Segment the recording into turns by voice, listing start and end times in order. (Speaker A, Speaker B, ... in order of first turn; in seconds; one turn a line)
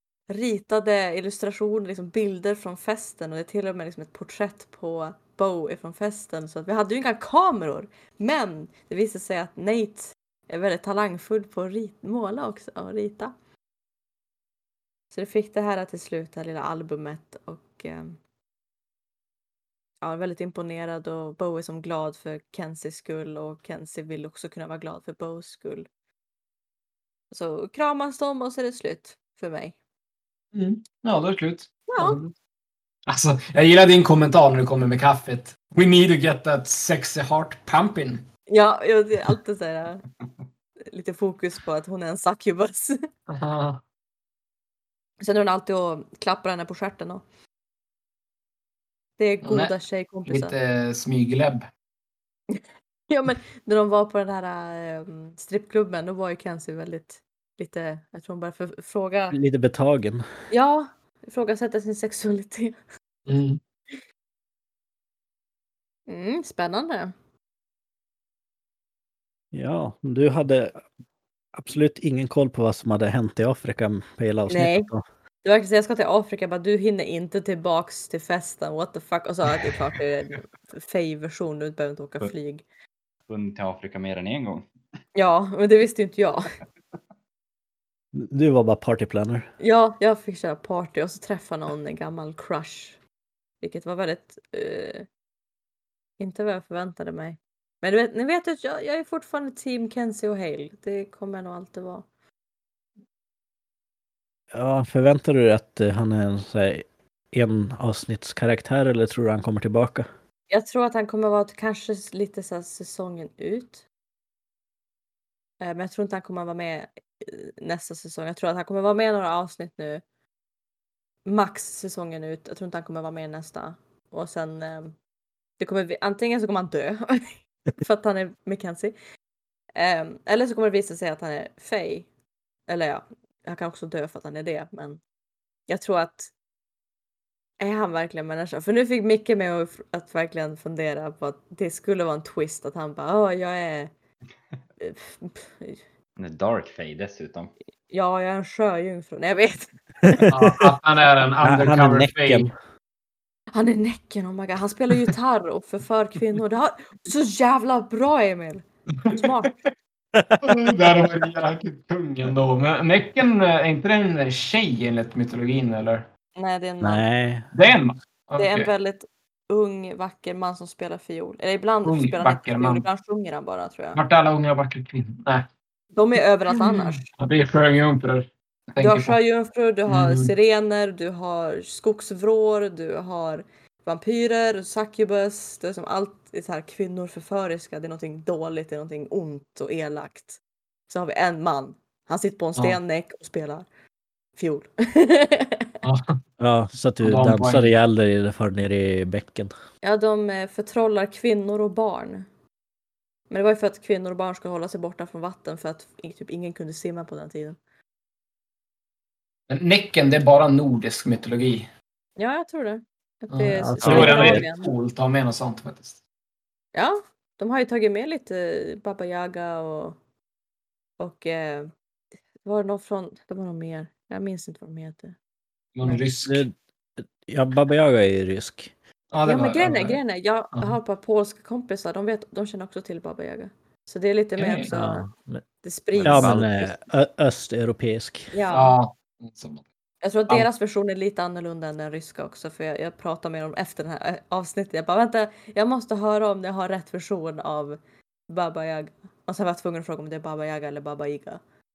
Speaker A: 0.3-13.3
Speaker A: 15.1-18.2
Speaker A: 20.0-25.9
Speaker A: 27.3-29.8
Speaker B: 30.5-32.3
Speaker A: 31.9-32.2
Speaker B: 33.1-38.2
Speaker A: 38.5-40.0
Speaker A: 40.9-43.0
Speaker B: 43.3-43.8
Speaker A: 45.2-47.2
Speaker A: 49.2-50.5
Speaker B: 49.4-49.7
Speaker B: 50.2-51.7
Speaker A: 52.5-59.4
Speaker C: 59.3-60.2
Speaker A: 60.5-62.8
Speaker B: 63.3-63.6
Speaker A: 66.1-67.1
Speaker C: 69.5-70.8
Speaker C: 71.5-75.0
Speaker A: 74.5-74.9
Speaker A: 75.4-82.6
Speaker D: 83.3-84.7
Speaker A: 85.1-86.4
Speaker C: 88.1-89.5
Speaker A: 89.6-93.0
Speaker A: 93.6-95.0
Speaker A: 96.2-102.0
Speaker C: 104.5-110.1
Speaker A: 110.5-113.8
Speaker A: 115.6-120.0
Speaker A: 121.2-125.0
Speaker A: 125.6-128.9
Speaker A: 129.8-132.1
Speaker A: 132.7-135.0
Speaker A: 135.7-136.3
Speaker A: 137.6-143.9
Speaker A: 144.8-145.8
Speaker D: 146.2-147.5
Speaker A: 147.9-150.2
Speaker C: 150.1-150.6
Speaker B: 150.3-152.5
Speaker C: 151.4-152.5
Speaker A: 153.5-159.7
Speaker C: 160.1-161.1
Speaker B: 160.4-166.1
Speaker A: 166.3-167.0
Speaker C: 166.8-167.5
Speaker B: 167.5-168.7
Speaker A: 168.4-174.0
Speaker B: 171.8-172.8
Speaker B: 173.9-175.4
Speaker A: 175.9-177.1
Speaker B: 176.5-179.2
Speaker A: 178.8-193.7
Speaker B: 179.9-180.3
Speaker A: 194.3-195.7
Speaker B: 195.8-196.1
Speaker C: 196.4-199.5
Speaker B: 197.0-197.8
Speaker A: 199.8-202.3
Speaker A: 203.3-207.6
Speaker B: 209.5-211.7
Speaker A: 212.2-214.7
Speaker B: 213.3-216.0
Speaker C: 213.6-214.4
Speaker D: 213.8-214.1
Speaker A: 216.7-220.0
Speaker A: 221.0-221.7
Speaker A: 222.4-225.1
Speaker B: 225.7-226.4
Speaker C: 226.2-228.7
Speaker B: 229.1-230.0
Speaker A: 229.2-235.1
Speaker B: 234.4-234.7
Speaker C: 234.7-235.4
Speaker A: 235.6-236.5
Speaker D: 235.9-236.7
Speaker C: 236.0-238.3
Speaker A: 238.3-238.7
Speaker B: 238.5-239.7
Speaker A: 240.0-247.8
Speaker A: 248.3-251.4